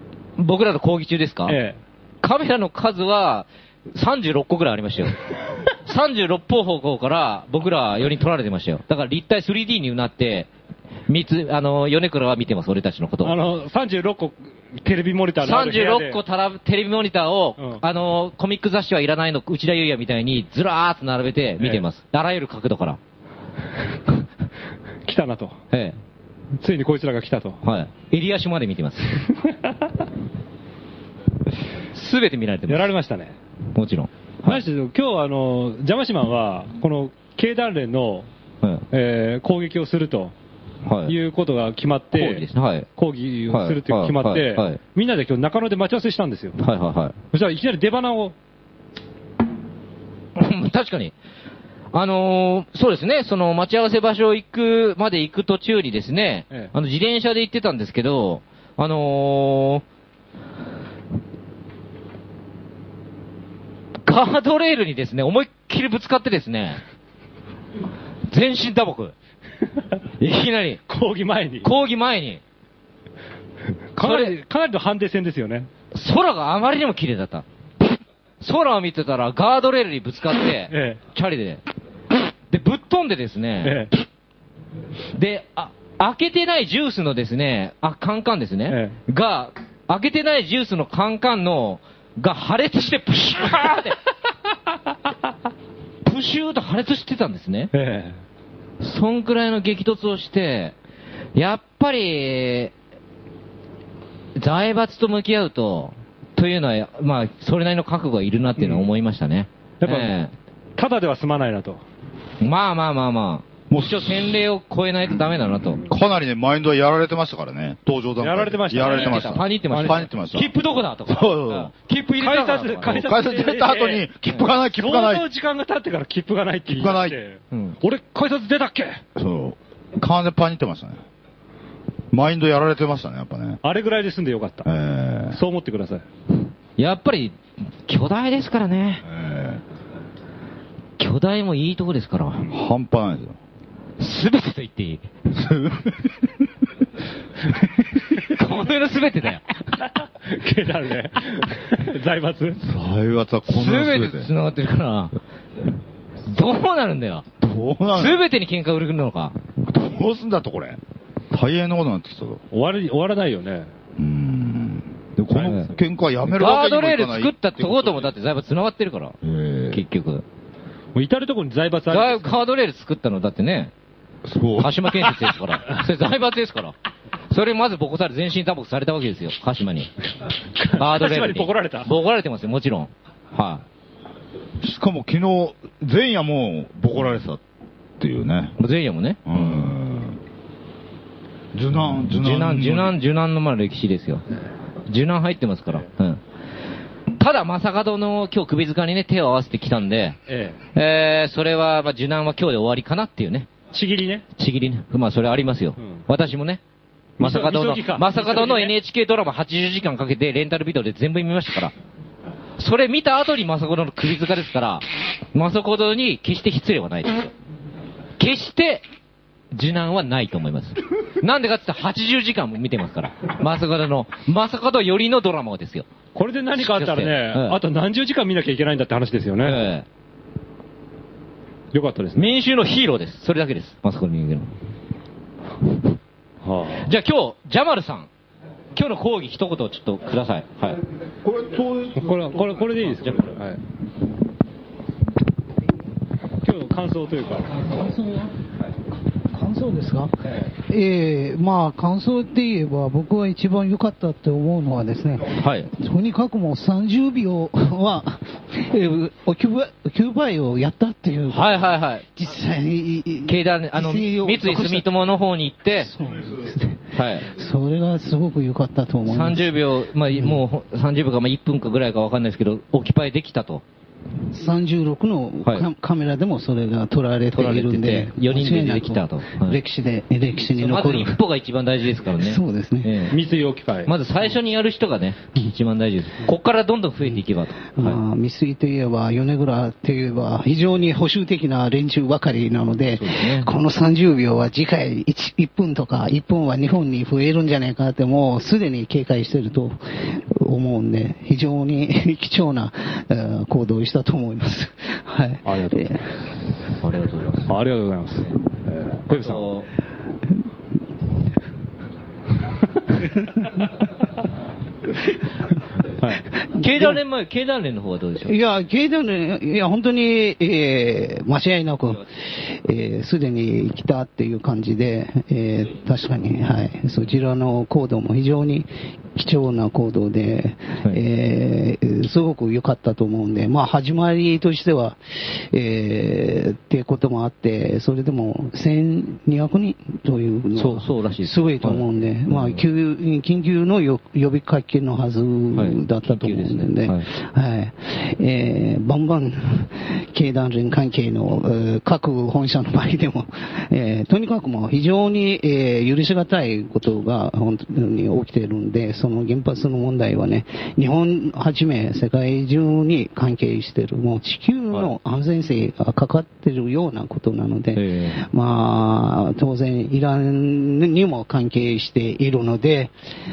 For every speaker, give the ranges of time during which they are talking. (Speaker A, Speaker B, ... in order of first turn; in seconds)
Speaker A: 0.4-1.6, 2.2-10.5, 11.1-13.4, 15.4-23.0, 25.7-26.0, 27.6-29.2, 31.9-32.9, 33.7-34.6, 40.8-41.1, 42.1-42.9, 43.5-44.8, 46.6-47.1, 50.4-51.1, 51.9-59.8, 64.0-66.8, 68.3-69.1, 70.2-70.8, 71.6-72.4, 74.0-74.3, 75.9-77.4, 78.4-81.6, 82.5-83.9, 85.1-94.0, 96.0-97.7, 98.8-100.7, 101.3-102.7, 104.3-110.3, 112.4-115.8, 118.7-123.0, 127.5-127.8, 136.8-139.0, 141.0-142.5, 144.0-145.1, 148.2-149.4, 153.5-155.2, 156.2-157.2, 157.9-159.3, 165.4-165.7, 166.3-169.2, 169.7-170.2, 171.9-173.7, 174.6-176.7, 177.3-179.9, 180.7-183.6, 188.6-189.7, 192.1-194.2, 194.9-196.2, 197.2-200.2, 200.7-203.5, 204.4-206.6, 207.2-211.7, 212.6-217.3, 218.2-218.8, 219.5-225.9, 226.6-227.6, 229.4-229.8, 232.2-234.5, 236.8-238.1, 238.7-240.8, 255.3-255.7, 261.3-262.1, 263.2-265.9, 266.9-267.3, 269.1-273.6, 277.3-279.6, 280.5-283.1, 283.9-288.0, 292.9-293.5, 306.8-307.5, 309.1-309.7, 316.5-318.4, 340.5-342.6, 345.5-347.1, 367.7-368.2
Speaker B: 1.5-1.8, 13.2-16.2, 25.0-25.6, 26.6-27.6, 29.4-29.7, 32.7-33.3, 34.4-38.3, 38.9-40.3, 41.1-42.4, 43.0-46.6, 47.3-48.3, 70.9-71.7, 73.9-75.7, 80.7-81.0, 83.6-83.9, 88.7-89.0, 97.7-98.2, 108.6-108.9, 109.8-110.1, 110.8-111.8, 118.2-120.1, 122.2-129.0, 133.6-134.7, 135.3-136.0, 149.8-152.6, 162.5-163.7, 170.9-172.3, 180.6-181.9, 200.3-200.6, 203.7-204.2, 207.2-208.7, 226.1-229.6, 231.7-232.3, 236.4-236.8, 241.9-243.6, 246.4-247.6, 283.1-283.9, 305.4-306.1, 307.5-309.5, 316.0-316.2
Speaker C: 113.7-114.4, 115.6-120.5, 121.1-121.7, 122.8-125.2, 126.7-127.2, 129.2-131.0, 132.1-133.6, 134.6-135.4, 139.1-139.6, 142.5-143.4, 145.3-146.3, 152.6-154.3, 157.4-158.2, 159.6-160.8, 161.3-162.4, 164.0-168.1, 169.2-169.8, 174.2-175.3, 184.6-187.4, 188.0-188.5, 189.2-190.2, 191.5-193.0, 241.2-243.1
Speaker D: 247.8-248.3, 249.3-261.6, 262.1-264.9, 265.7-269.5, 274.3-281.2, 282.1-282.9, 287.8-306.0, 316.6-317.0, 318.2-372.9